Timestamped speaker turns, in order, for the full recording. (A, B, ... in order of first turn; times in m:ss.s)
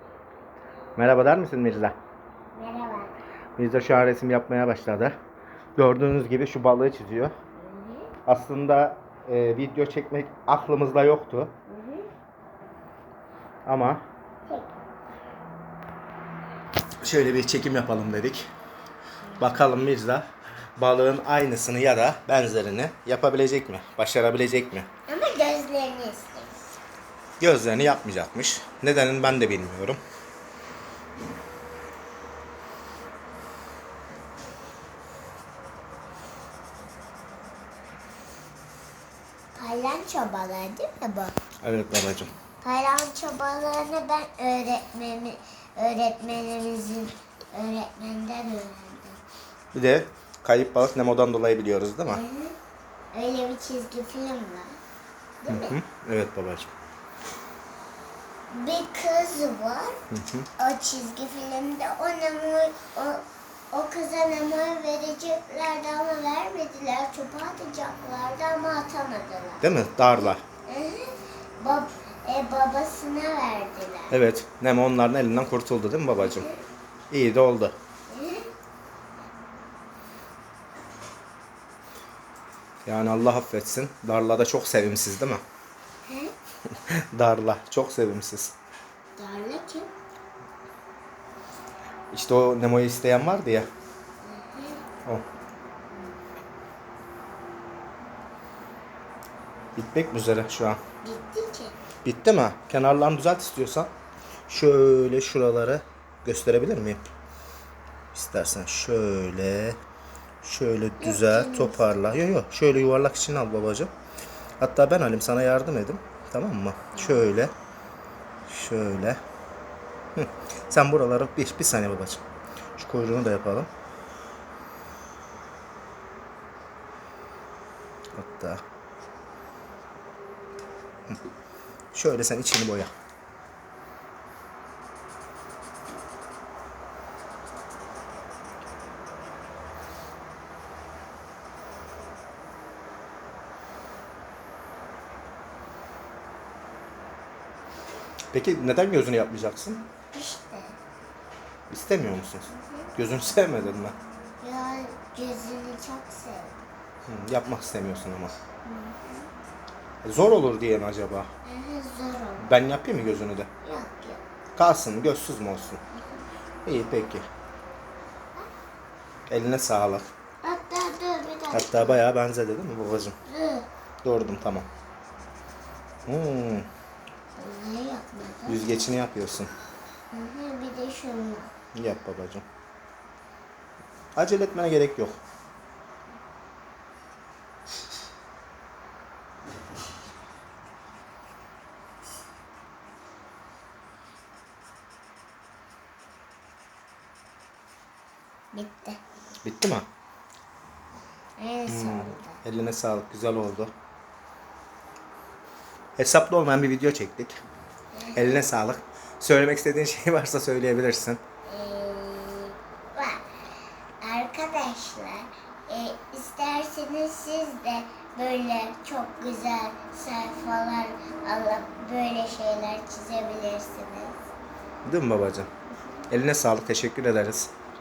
0:01.0-0:02.0 A
0:02.6-0:03.1 B
0:03.6-0:05.2 A
0:05.8-0:07.3 A
0:07.6-0:08.1 B
0:08.3-0:11.5 A
0:11.7-0:12.1 B
0:13.7-0:14.0 A
0:14.5-0:14.8 B
0:17.0-0:18.5 A
0:19.4-0:24.9 A
0:25.1-0:26.7 B
0:27.4-0:30.0 A
0:39.6-0:41.4 B
0:41.6-0:42.3 A
0:42.6-0:49.2 B
0:49.7-0:52.2 A
0:52.1-0:52.6 B
0:53.1-0:54.8 B
0:55.4-0:55.8 B
0:55.5-0:56.7 A
0:58.5-1:00.0 B
1:00.1-1:00.5 A
1:00.6-1:09.6 B
1:09.6-1:10.4 A
1:10.7-1:14.2 B
1:14.1-1:16.5 A
1:16.2-1:16.6 B
1:17.1-1:17.8 A
1:18.1-1:18.5 B
1:22.9-1:25.4 A
1:26.0-1:26.3 B
1:26.7-1:28.6 A
1:29.2-1:29.9 B
1:32.1-1:33.7 A
1:34.2-1:34.8 B
1:39.8-1:40.8 A
1:41.0-1:41.8 B
1:42.0-1:43.9 A
1:44.5-1:47.0 A
1:48.1-1:49.8 A
1:50.4-1:53.9 A
1:51.0-1:51.9 B
1:54.6-1:57.5 A
1:57.0-1:57.3 B
1:58.5-1:59.2 A
2:00.2-2:02.2 A
2:02.8-2:03.7 A
2:08.2-2:08.6 A
2:11.9-2:12.9 A
2:28.3-2:29.8 A
2:30.1-2:30.8 B
2:31.7-2:34.0 A
2:32.5-2:32.9 B
2:34.4-2:36.6 B
2:37.1-2:38.3 A
2:38.6-2:39.3 B
2:40.0-2:41.3 A
2:41.4-2:42.6 B
2:42.4-2:43.5 A
2:43.6-2:44.2 B
2:44.6-2:45.8 A
2:45.9-2:46.2 B
2:46.6-2:47.3 A
2:49.3-2:50.1 A
2:50.4-2:52.0 B
2:51.5-2:53.2 A
2:53.3-2:53.7 B
2:54.0-2:54.7 A
2:56.1-2:56.7 A
2:57.4-2:58.6 B
2:58.5-2:59.5 A
3:00.1-3:01.5 B
3:01.8-3:02.4 A
3:04.2-3:05.2 A
3:18.5-3:19.0 B
3:19.4-3:19.9 A
3:21.4-3:22.4 B
3:21.7-3:23.7 A
3:26.0-3:27.4 A
3:27.9-3:28.4 B
3:28.2-3:31.2 A
3:31.5-3:33.2 B
3:34.0-3:44.2 B
3:44.8-3:45.5 A
3:46.1-3:47.5 A